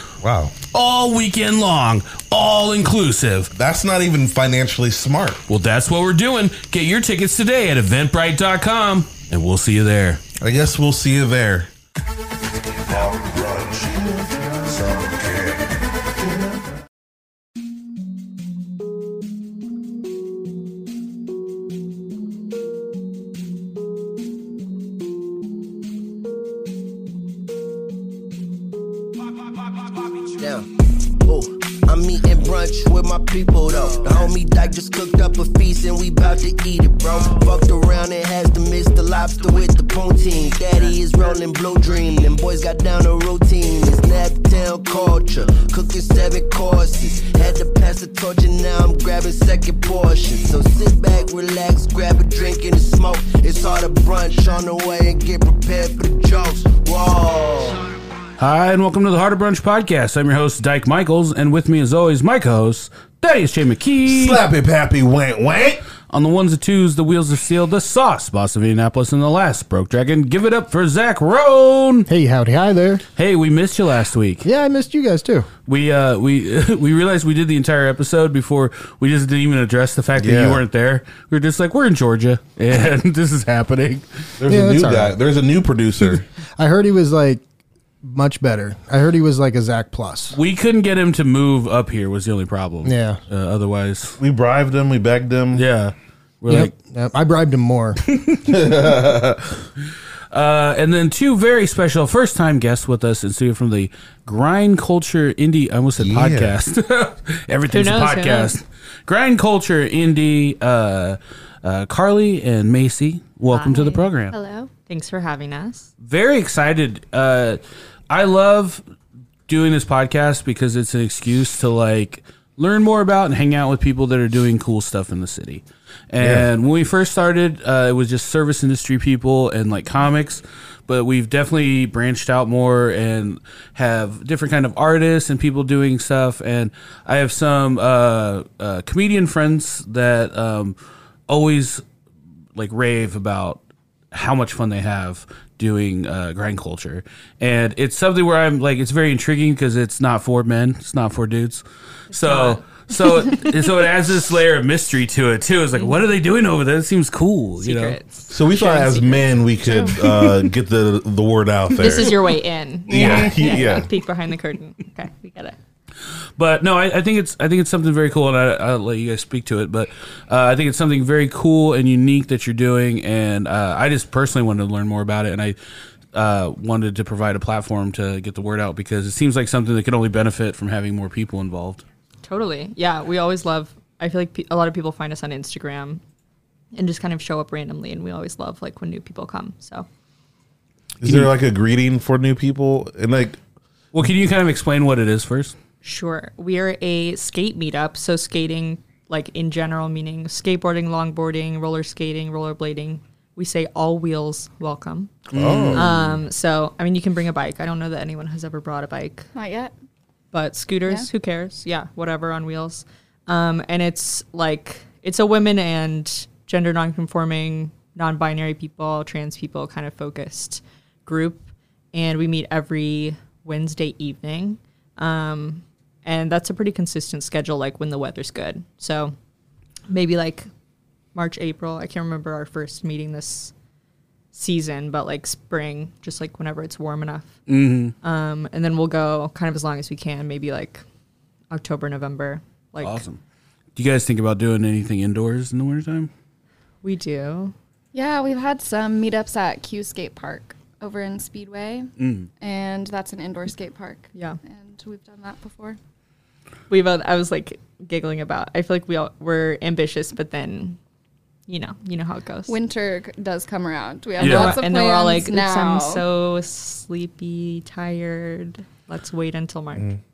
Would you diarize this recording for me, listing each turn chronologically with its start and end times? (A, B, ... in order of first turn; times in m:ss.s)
0:00.2-0:00.6 A
0:00.7-0:03.5 B
0:03.5-0:05.4 A
0:05.5-0:10.2 B
0:10.4-0:11.7 A
0:12.7-0:15.7 A
0:30.3-0:30.7 C
0:31.2-0:57.8 C
0:58.4-1:04.4 B
1:04.0-1:05.8 A
1:06.1-1:12.1 B
1:12.1-1:13.0 D
1:13.2-1:14.5 B
1:14.4-1:15.5 D
1:15.7-1:24.2 B
1:20.2-1:20.6 A
1:24.4-1:26.2 A
1:24.5-1:25.1 D
1:26.6-1:27.4 D
1:28.0-1:30.4 D
1:30.3-1:34.2 B
1:32.8-1:33.2 D
1:34.2-1:35.6 A
1:35.6-1:36.7 B
1:36.5-1:38.0 D
1:38.1-1:38.6 B
1:38.5-1:39.6 A
1:40.3-1:54.4 B
1:46.0-1:46.6 A
1:47.7-1:48.6 E
1:53.5-1:54.1 E
1:54.3-1:54.7 F
1:54.9-1:55.9 E
1:56.0-1:58.8 B
1:59.5-2:20.8 B
2:06.2-2:06.5 A
2:21.3-2:21.8 B
2:22.6-2:23.6 B
2:24.1-2:38.0 B
2:32.1-2:32.8 E
2:37.6-2:39.3 E
2:38.3-2:42.3 A
2:39.6-2:40.0 F
2:41.8-2:45.6 E
2:42.9-2:43.9 A
2:46.4-2:55.6 B
2:56.1-3:01.8 B
3:02.2-3:06.0 E
3:06.7-3:09.9 E
3:11.0-3:13.4 A
3:11.0-3:11.3 B
3:13.9-3:15.6 B
3:15.8-3:29.3 E
3:25.3-3:25.9 B
3:25.3-3:26.2 A
3:29.4-3:29.7 F
3:30.3-3:49.2 E
3:49.9-3:50.5 E
3:51.2-3:53.5 E
3:54.3-3:57.4 E
3:57.5-3:58.0 B
3:58.0-4:00.8 E
4:01.5-4:03.0 E
4:02.8-4:03.2 B
4:03.8-4:06.1 B
4:06.8-4:07.5 E
4:07.9-4:15.8 F
4:12.0-4:12.3 B
4:16.7-4:20.8 E
4:21.5-4:22.6 E
4:22.5-4:26.0 F
4:24.2-4:29.9 E
4:24.2-4:24.6 B